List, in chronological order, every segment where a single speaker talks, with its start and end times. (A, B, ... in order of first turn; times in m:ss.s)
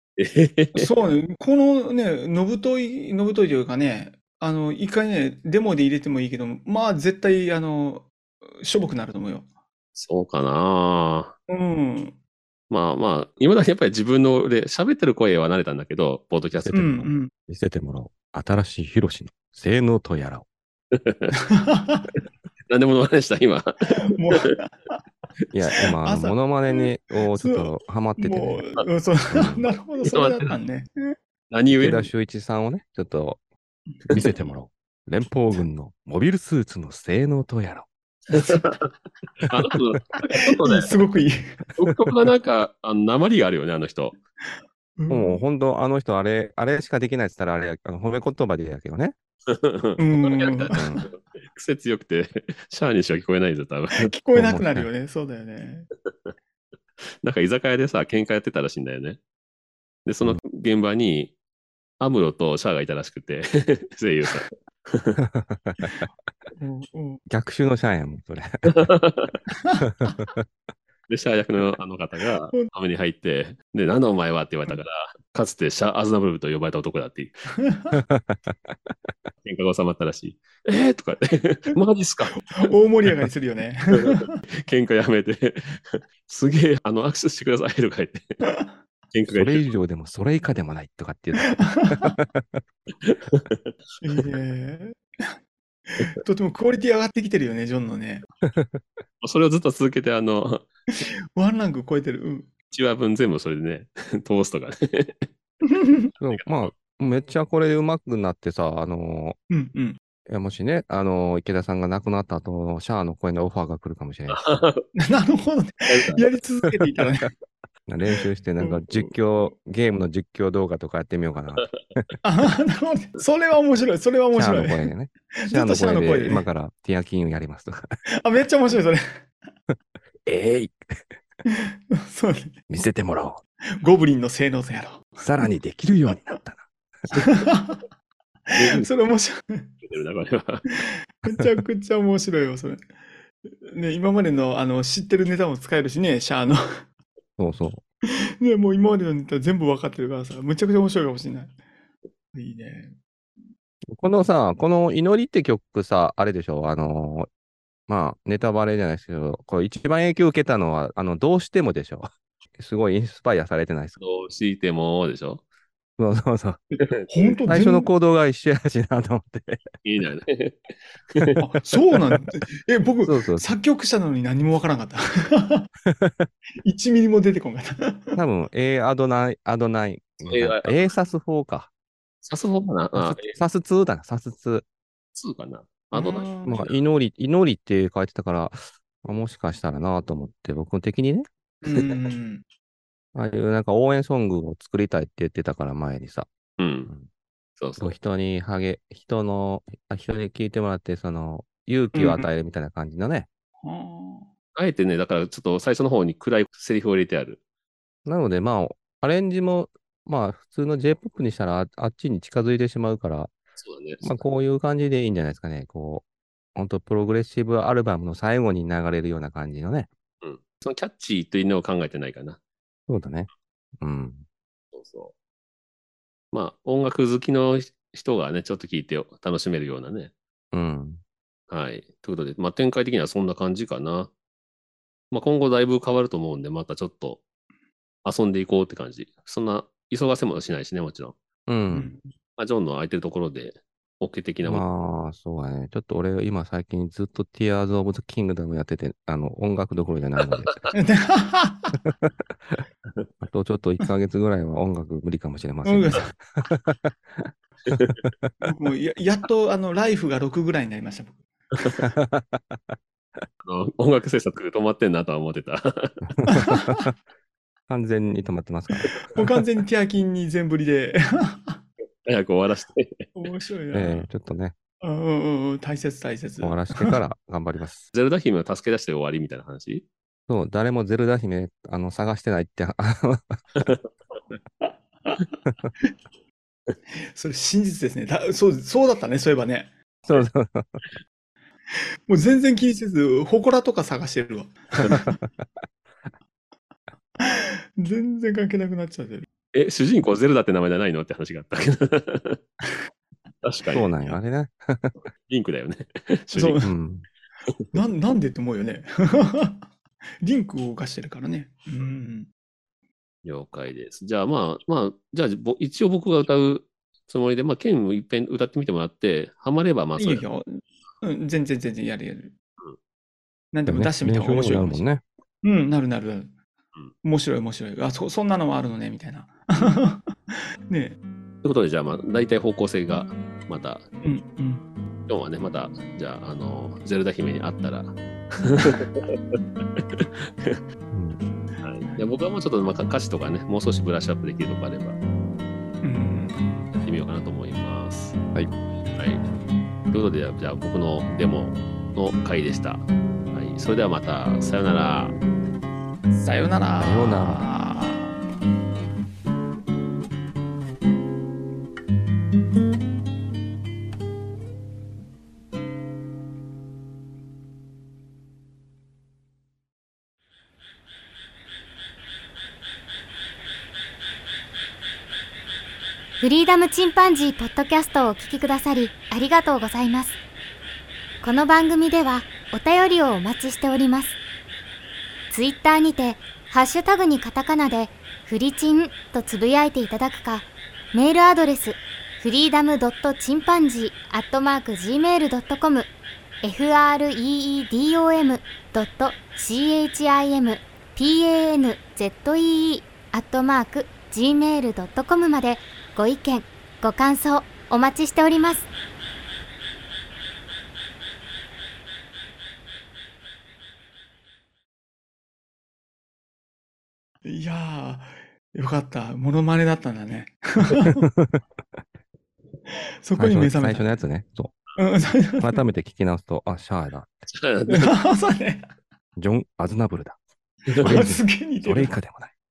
0:00.2-0:00.9 A
0:00.7-0:08.1 B
0:08.6-0:09.5 B
0:10.0-0:11.4 A
0:11.5-0:12.2 B
0:12.7-0:16.8 A
0:16.6-0:20.5 C
0:16.7-0:17.3 B
0:20.9-0:21.4 A
0:21.5-0:22.1 B
0:22.7-0:24.5 A
0:24.1-0:25.0 B
0:25.5-0:28.7 C
0:25.9-0:31.2 B
0:29.3-0:29.7 C
0:30.0-0:30.6 A
0:31.5-0:32.1 A
0:31.7-0:33.4 C
0:33.9-0:34.5 B
0:34.1-0:37.9 C
0:38.3-0:38.9 A
0:39.5-0:40.9 A
0:40.6-0:41.4 B
0:41.8-0:44.2 A
0:45.0-0:45.4 B
0:45.1-0:49.2 C
0:49.5-0:54.1 A
0:50.0-0:51.0 B
0:50.8-0:51.1 C
0:53.9-0:55.9 B
0:54.4-0:54.9 C
0:57.2-0:59.2 A
1:00.0-1:01.3 A
1:02.0-1:05.2 A
1:05.4-1:06.0 C
1:06.6-1:07.2 B
1:07.3-1:08.9 C
1:08.7-1:09.3 A
1:09.6-1:10.1 B
1:10.0-1:10.4 C
1:11.1-1:17.4 A
1:17.6-1:18.0 B
1:17.9-1:18.6 C
1:19.4-1:22.7 A
1:22.6-1:24.3 B
1:24.6-1:28.4 A
1:28.4-1:28.8 B
1:29.1-1:29.7 A
1:29.3-1:32.6 C
1:31.6-1:32.1 B
1:33.1-1:33.7 A
1:34.0-1:35.3 B
1:35.9-1:38.2 B
1:38.5-1:38.8 C
1:39.2-1:40.7 A
1:41.4-1:42.5 B
1:42.7-1:45.3 A
1:45.7-1:46.1 B
1:46.2-1:49.4 C
1:46.3-1:46.7 A
1:49.5-1:50.0 B
1:50.3-1:54.4 C
1:54.3-1:54.8 A
1:55.0-1:57.3 B
1:55.9-1:56.2 A
1:57.9-2:02.1 C
1:58.2-1:58.8 B
2:02.2-2:04.9 B
2:04.3-2:07.8 C
2:05.4-2:06.5 B
2:08.2-2:09.2 B
2:10.2-2:11.0 C
2:12.0-2:12.5 B
2:12.7-2:13.4 C
2:13.8-2:15.5 B
2:15.2-2:16.7 C
2:17.1-2:17.8 B
2:18.5-2:19.7 B
2:18.6-2:18.9 A
2:19.8-2:20.6 A
2:20.7-2:22.8 B
2:23.6-2:26.6 B
2:27.4-2:27.8 C
2:28.4-2:31.6 B
2:32.4-2:33.0 B
2:33.9-2:37.3 C
2:37.9-2:44.0 C
2:44.0-2:45.4 A
2:46.0-2:46.6 C
2:46.8-2:47.2 A
2:47.1-2:47.9 B
2:47.4-2:49.6 C
2:49.8-2:50.6 A
2:51.2-2:51.4 A
2:51.4-2:55.7 B
2:53.0-2:53.5 C
2:55.9-2:56.3 C
2:56.6-2:58.2 B
2:58.2-3:01.7 C
3:00.2-3:00.8 A
3:02.2-3:03.4 A
3:03.0-3:04.6 C
3:05.2-3:06.8 A
3:05.9-3:06.6 B
3:06.4-3:11.3 C
3:11.6-3:12.4 B
3:13.1-3:16.3 C
3:16.6-3:16.9 A
3:17.6-3:17.9 A
3:17.8-3:23.3 C
3:21.9-3:22.3 B
3:23.6-3:24.3 B
3:24.6-3:27.4 A
3:28.0-3:33.3 C
3:33.6-3:34.2 A
3:34.0-3:39.9 C
3:40.2-3:42.4 A
3:42.9-3:43.3 C
3:43.8-3:44.2 C
3:44.7-3:45.1 A
3:46.3-3:50.1 A
3:50.5-3:51.0 C
3:51.5-3:54.1 A
3:55.1-3:57.2 A
3:58.0-4:01.2 A
4:01.5-4:02.0 C
4:01.7-4:02.1 B
4:02.4-4:04.6 A
4:04.4-4:10.6 C
4:10.7-4:11.8 B
4:13.2-4:18.3 C
4:15.6-4:16.1 B
4:18.4-4:21.2 B
4:21.8-4:22.8 C
4:23.4-4:26.0 A
4:26.2-4:26.9 C
4:26.3-4:26.5 B
4:27.7-4:29.2 C
4:29.0-4:31.6 B
4:32.0-4:33.1 A
4:33.2-4:34.1 B
4:33.7-4:34.6 C
4:34.8-4:37.0 B
4:36.4-4:37.9 C
4:37.9-4:39.9 A
4:40.3-4:43.6 C
4:44.6-4:45.2 B
4:47.1-4:49.7 B
4:50.1-4:50.8 C
4:52.1-4:55.2 B
4:57.2-4:59.3 B
4:59.5-5:02.4 A
5:03.4-5:03.9 A
5:03.7-5:05.0 C
5:05.3-5:06.6 A
5:06.3-5:06.7 B
5:06.6-5:07.0 C
5:07.7-5:09.6 B
5:10.2-5:12.3 B
5:13.2-5:20.2 A
5:20.0-5:22.3 B
5:23.5-5:24.8 B
5:23.7-5:25.0 C
5:25.4-5:26.3 B
5:27.0-5:30.1 B
5:30.7-5:31.0 B
5:31.4-5:33.9 A
5:34.0-5:34.6 B
5:35.1-5:40.6 A
5:40.9-5:41.2 C
5:41.6-5:45.0 A
5:45.8-5:46.4 B
5:46.8-5:48.2 A
5:48.9-5:49.3 A
5:49.9-5:55.2 A
5:56.1-5:58.2 B
5:56.8-5:57.4 C
6:16.2-6:20.2 D
6:21.2-6:24.2 D
6:25.3-6:35.9 D
6:36.4-6:48.7 D
6:57.2-7:01.1 B
7:01.0-7:01.4 C
7:02.7-7:03.9 B
7:03.2-7:04.6 C
7:04.8-7:05.6 B
7:05.4-7:07.2 C
7:07.3-7:07.9 A
7:07.7-7:08.7 B
7:09.2-7:10.2 C
7:10.7-7:11.1 A
7:10.8-7:12.0 B
7:10.8-7:12.3 C